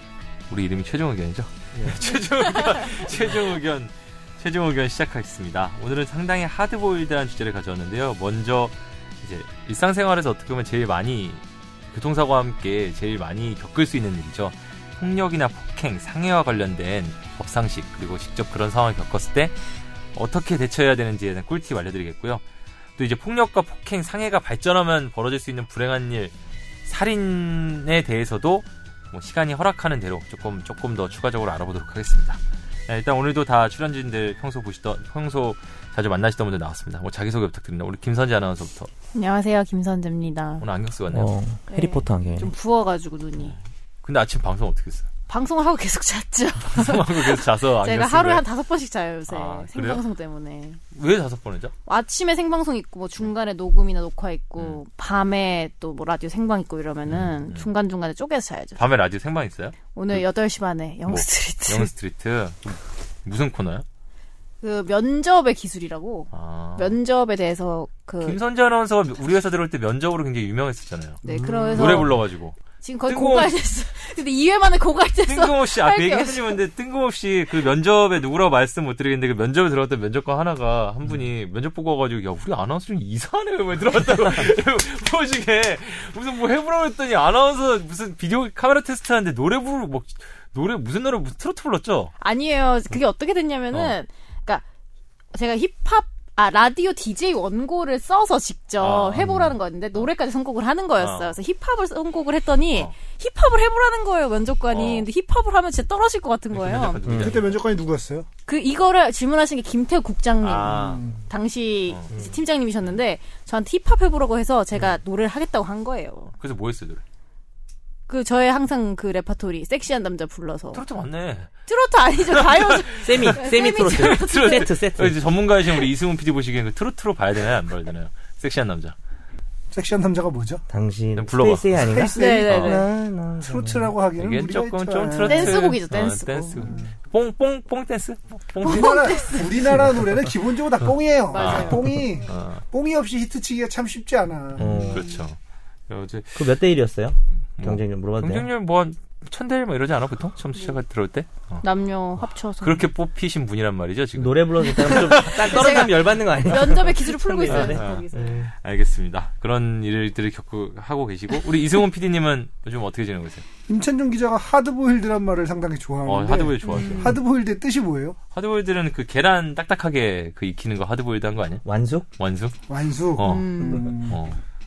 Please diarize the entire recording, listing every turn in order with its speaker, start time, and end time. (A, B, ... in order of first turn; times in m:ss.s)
0:00.5-0:19.6 A
0:20.2-0:22.4 A
0:23.0-0:26.3 A
0:26.9-0:38.9 A
0:39.1-0:40.6 B
0:40.6-0:41.3 A
0:41.1-0:42.5 C
0:41.7-0:43.6 B
0:43.4-0:45.1 A
0:45.3-0:50.8 B
0:46.6-0:48.4 A
0:49.3-0:50.0 A
0:50.9-0:51.7 A
0:51.9-0:58.8 B
0:57.1-0:57.7 A
0:58.8-1:00.2 A
0:59.9-1:01.9 B
1:01.1-1:03.8 A
1:04.6-1:08.4 B
1:06.3-1:07.0 A
1:08.2-1:12.6 A
1:11.2-1:12.1 C
1:11.2-1:12.2 B
1:12.8-1:16.6 B
1:13.1-1:13.6 A
1:15.2-1:32.1 A
1:32.2-1:34.6 B
1:35.3-1:47.0 B
1:38.8-1:39.4 A
1:39.2-1:39.5 C
1:41.0-1:41.4 A
1:44.7-1:45.1 A
1:46.5-1:47.6 A
1:47.1-1:47.3 C
1:47.2-1:48.3 D
1:48.5-1:56.3 B
1:50.4-1:51.1 A
1:50.7-1:51.2 D
1:51.9-1:52.2 A
1:56.4-1:57.0 A
1:58.1-2:00.8 B
2:00.7-2:01.5 A
2:01.7-2:04.6 B
2:02.3-2:09.0 A
2:03.0-2:05.2 C
2:09.7-2:10.6 D
2:10.7-2:13.9 C
2:11.2-2:11.9 A
2:11.9-2:12.9 D
2:12.1-2:12.9 B
2:12.5-2:12.8 A
2:13.4-2:15.6 D
2:14.2-2:19.1 A
2:15.2-2:16.8 B
2:16.6-2:16.9 D
2:18.6-2:24.8 D
2:18.6-2:19.9 B
2:21.3-2:22.0 B
2:21.4-2:22.6 A
2:24.6-2:25.1 C
2:24.6-2:25.4 A
2:25.9-2:26.4 A
2:26.4-2:28.5 C
2:27.6-2:31.6 A
2:31.6-2:32.9 B
2:32.6-2:36.0 A
2:34.2-2:38.0 C
2:34.9-2:38.4 B
2:37.5-2:43.4 A
2:43.7-2:48.2 D
2:46.1-2:47.2 A
2:46.7-2:47.2 B
2:48.3-2:51.6 A
2:51.6-2:52.1 C
2:52.2-2:52.6 A
2:52.7-2:54.2 D
2:53.2-2:54.4 A
2:53.2-2:53.9 B